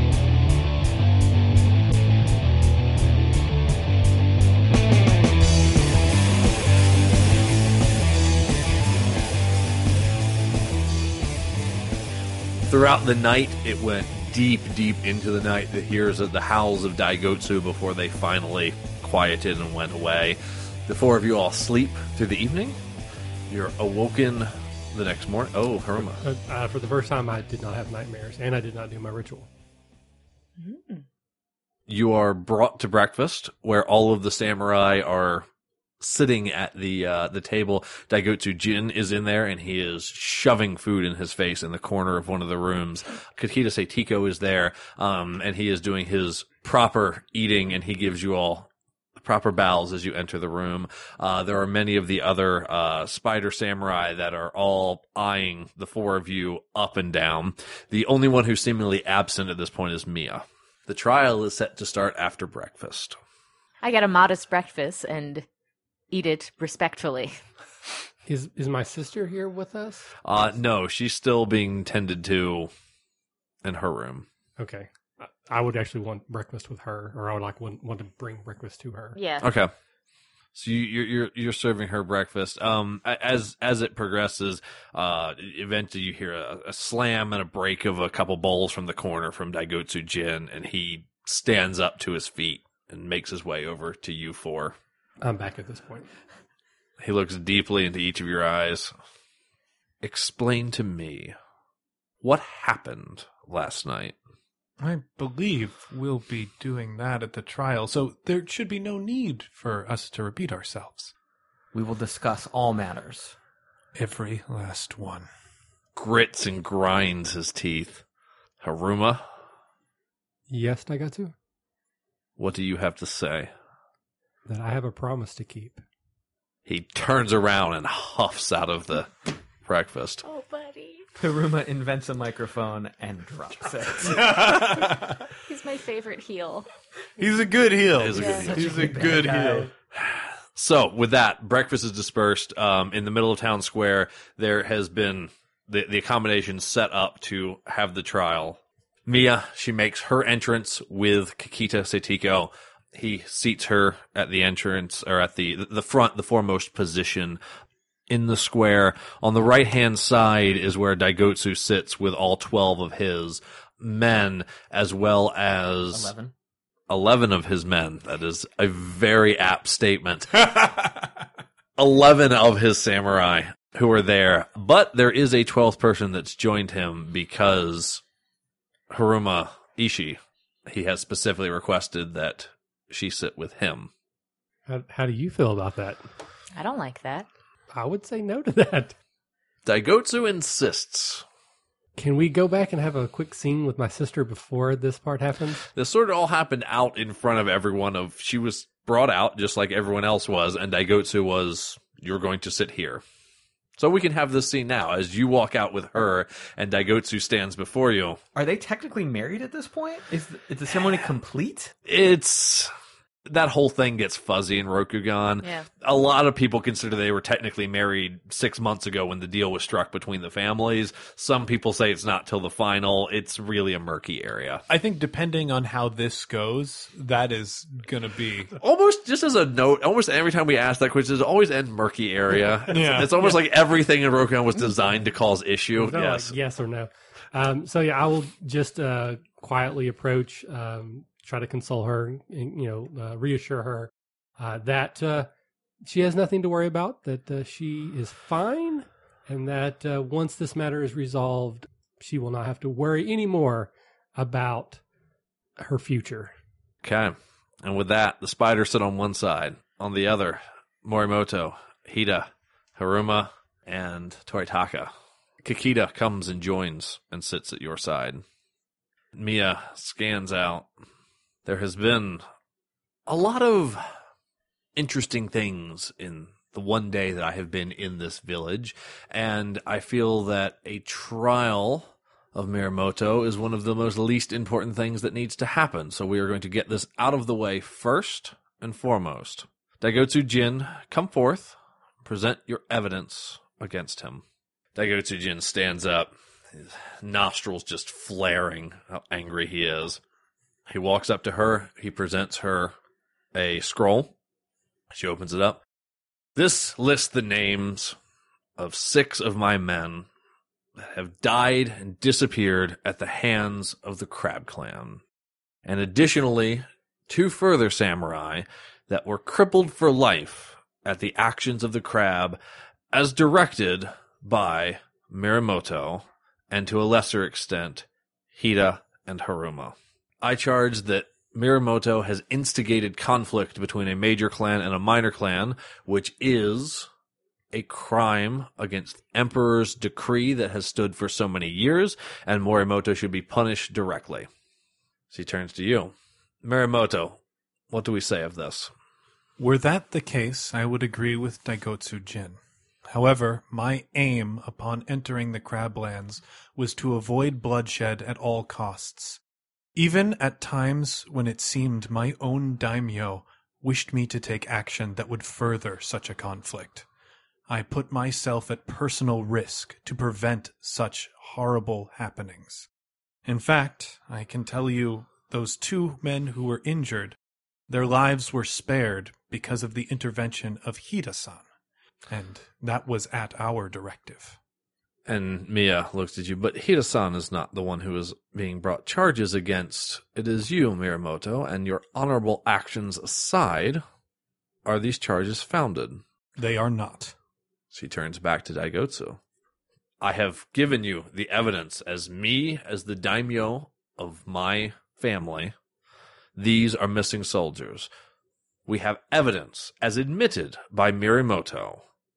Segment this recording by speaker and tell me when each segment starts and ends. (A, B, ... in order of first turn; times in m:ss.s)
0:12.7-0:22.8 A
0:23.5-0:26.2 A
0:26.2-0:29.5 B
0:30.6-0:31.0 C
0:31.9-0:35.5 A
0:36.0-1:03.2 A
1:03.8-1:05.4 C
1:06.1-1:07.4 C
1:08.3-1:10.1 B
1:10.2-1:12.7 A
1:13.6-1:14.3 A
1:14.6-1:19.2 B
1:19.2-1:19.5 C
1:19.4-1:19.7 A
1:20.6-1:34.8 A
1:35.2-1:36.1 B
1:37.0-1:38.9 A
1:40.0-1:41.4 A
1:42.2-1:44.2 A
1:44.8-1:51.1 D
1:51.7-1:53.4 E
1:54.0-1:55.3 D
1:56.0-1:58.0 A
1:58.6-1:59.2 A
2:00.5-2:01.3 B
2:02.4-2:03.5 A
2:04.4-2:05.8 B
2:06.7-2:09.1 A
2:09.6-2:10.2 A
2:10.2-2:11.1 C
2:11.2-2:14.4 E
2:14.1-2:15.3 D
2:15.4-2:16.7 C
2:17.2-2:19.7 D
2:18.0-2:18.7 A
2:18.2-2:18.5 C
2:18.5-2:19.3 E
2:18.8-2:19.7 B
2:19.9-2:37.4 A
2:38.1-2:46.1 A
2:45.9-2:46.3 E
2:46.9-2:50.9 A
2:51.8-2:58.0 A
2:58.9-3:03.9 A
3:04.7-3:06.0 B
3:06.6-3:07.3 C
3:07.7-3:09.0 B
3:09.6-3:11.2 A
3:12.0-3:15.6 B
3:15.7-3:23.0 A
3:23.8-3:28.2 A
3:28.4-3:31.7 E
3:31.9-3:32.7 A
3:33.3-3:44.6 A
3:44.7-3:48.6 D
3:48.6-3:56.3 A
3:52.7-3:53.4 D
3:55.8-4:05.3 B
4:05.8-4:14.8 B
4:15.6-4:16.3 B
4:16.8-4:24.9 A
4:25.4-4:28.2 A
4:29.2-4:30.7 A
4:31.4-4:32.2 A
4:33.1-4:33.8 A
4:34.8-4:54.2 A
4:54.8-5:00.0 A
5:00.7-5:02.7 A
5:03.3-5:04.1 A
5:04.9-5:05.6 A
5:06.4-5:08.0 A
5:08.6-5:10.1 A
5:10.8-5:15.0 A
5:15.6-5:22.4 A
5:22.9-5:36.9 A
5:37.5-5:44.3 A
5:45.1-5:45.9 A
5:46.4-5:47.2 A
5:47.7-5:48.7 A
5:49.4-5:59.2 D
5:59.8-6:06.9 D
6:07.5-6:12.7 D
6:13.3-6:17.2 D
6:17.7-6:21.5 D
6:22.1-6:24.4 D
6:25.1-6:33.8 A
6:34.6-6:36.0 A
6:36.4-6:37.2 D
6:37.7-6:39.2 A
6:40.0-6:45.5 A
6:46.4-6:47.9 A
6:48.7-6:51.8 A